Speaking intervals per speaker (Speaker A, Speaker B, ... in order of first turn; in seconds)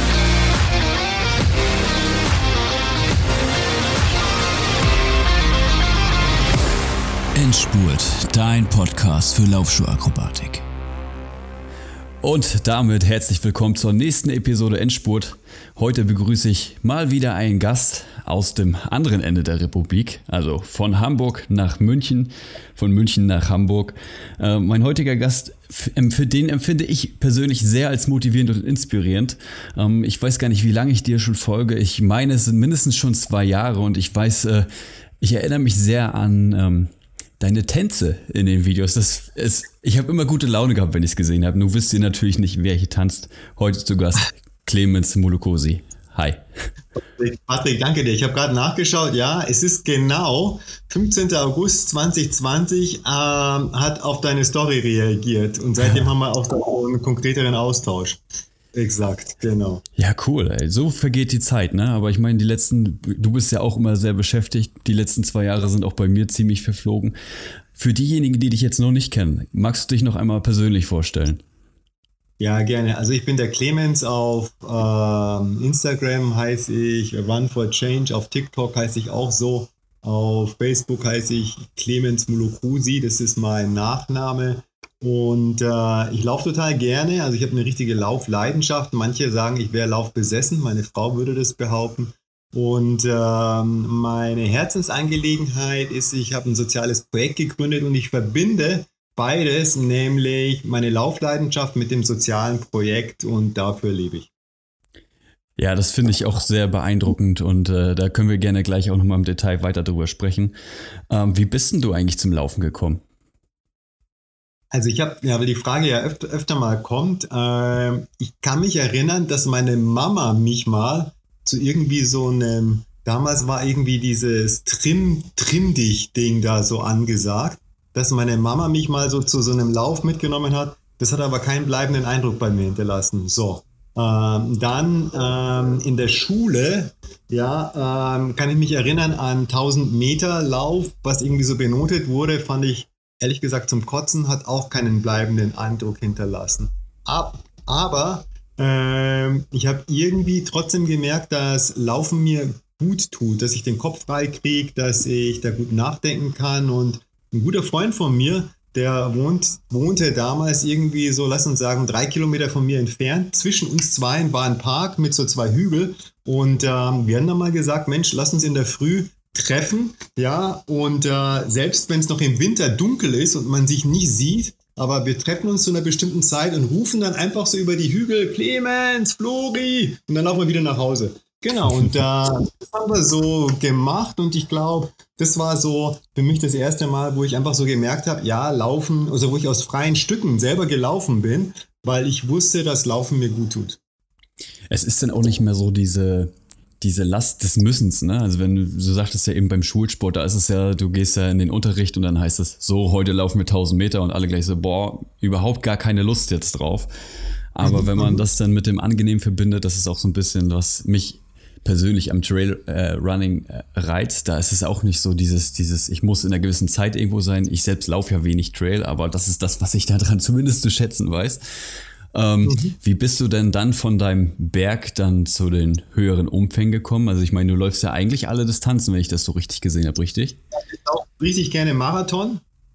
Speaker A: 7.3-10.6, 12.2-34.7, 35.2-46.4, 60.0-67.1, 67.8-71.4, 105.6-110.5, 111.1-113.0, 181.7-181.9, 194.7-206.9, 207.6-221.4, 222.1-230.4
Speaker B: 47.2-58.2, 58.7-59.8, 72.4-104.3, 114.7-193.8, 207.6-208.2, 222.4-222.8, 230.7-232.4